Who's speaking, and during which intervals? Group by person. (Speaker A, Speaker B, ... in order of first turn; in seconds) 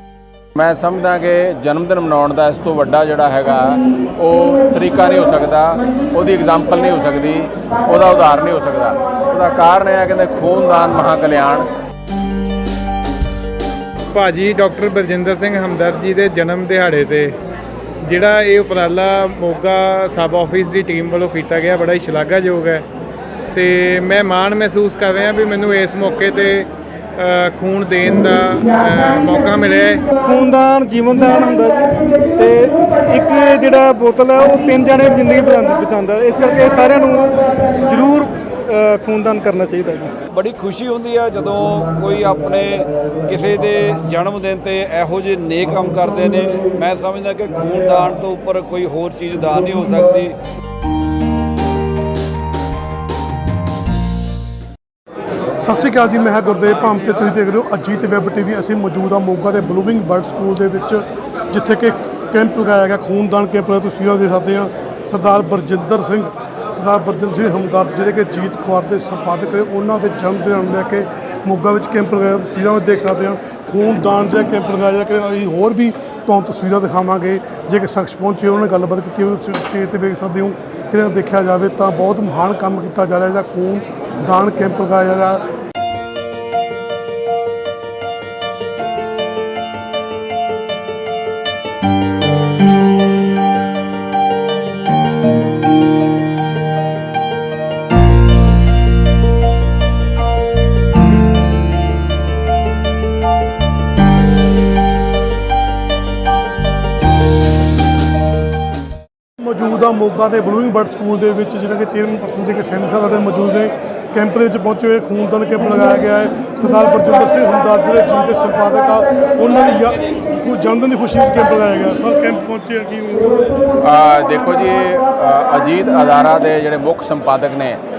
Speaker A: 0.6-11.7, 123.8-127.8
Speaker B: 14.1-17.3, 18.0-22.8, 23.5-30.1
Speaker C: 30.1-40.1
Speaker D: 40.3-50.3
Speaker E: 55.6-85.4, 109.4-123.4